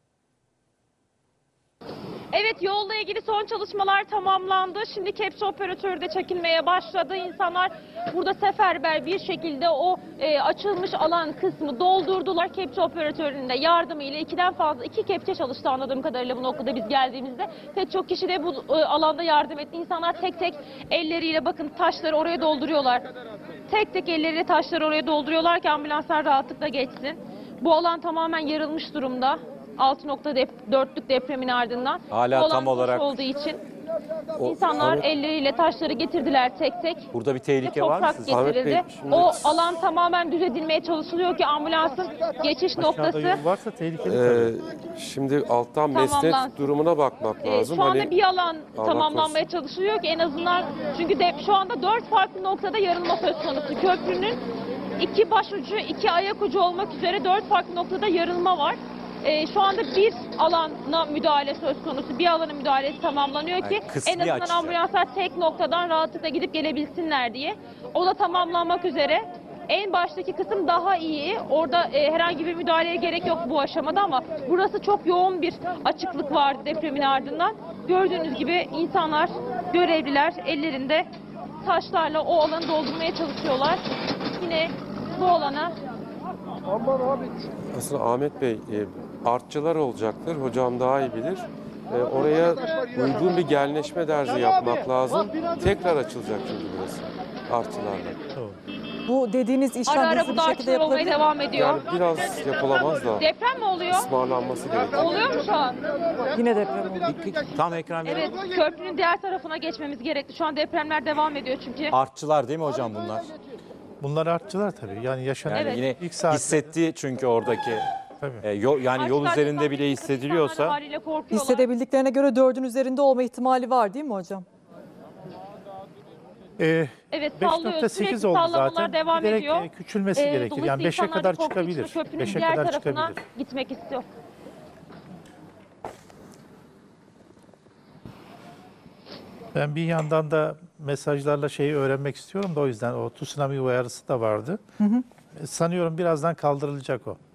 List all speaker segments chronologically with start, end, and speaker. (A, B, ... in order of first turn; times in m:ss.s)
0:02.3-0:23.0 A
0:23.7-0:33.6 A
0:32.1-0:33.2 B
0:34.4-0:35.0 C
0:34.4-0:37.1 A
0:37.1-0:38.4 B
0:37.6-0:43.4 A
0:38.3-0:39.6 C
0:42.8-0:44.5 D
0:44.0-0:48.1 C
0:45.9-0:46.6 A
0:47.4-0:54.4 A
0:48.7-0:49.4 C
0:55.0-1:21.1 A
1:03.6-1:04.8 B
1:21.6-1:25.7 A
1:27.7-1:38.2 C
1:39.1-1:41.2 E
1:39.8-1:41.8 A
1:41.5-1:43.3 C
1:43.2-1:44.1 A
1:43.9-1:45.4 C
1:44.9-1:45.8 A
1:46.3-1:47.1 E
1:47.0-1:48.3 B
1:48.0-1:51.9 A
1:51.9-1:53.3 B
1:54.0-1:56.8 D
1:55.4-1:57.8 B
1:55.5-1:55.8 A
1:58.2-1:58.4 D
1:58.4-2:00.8 B
1:58.9-2:01.6 A
2:01.3-2:04.4 E
2:06.6-2:13.2 D
2:07.1-2:14.0 A
2:19.5-2:24.6 D
2:25.3-2:27.2 D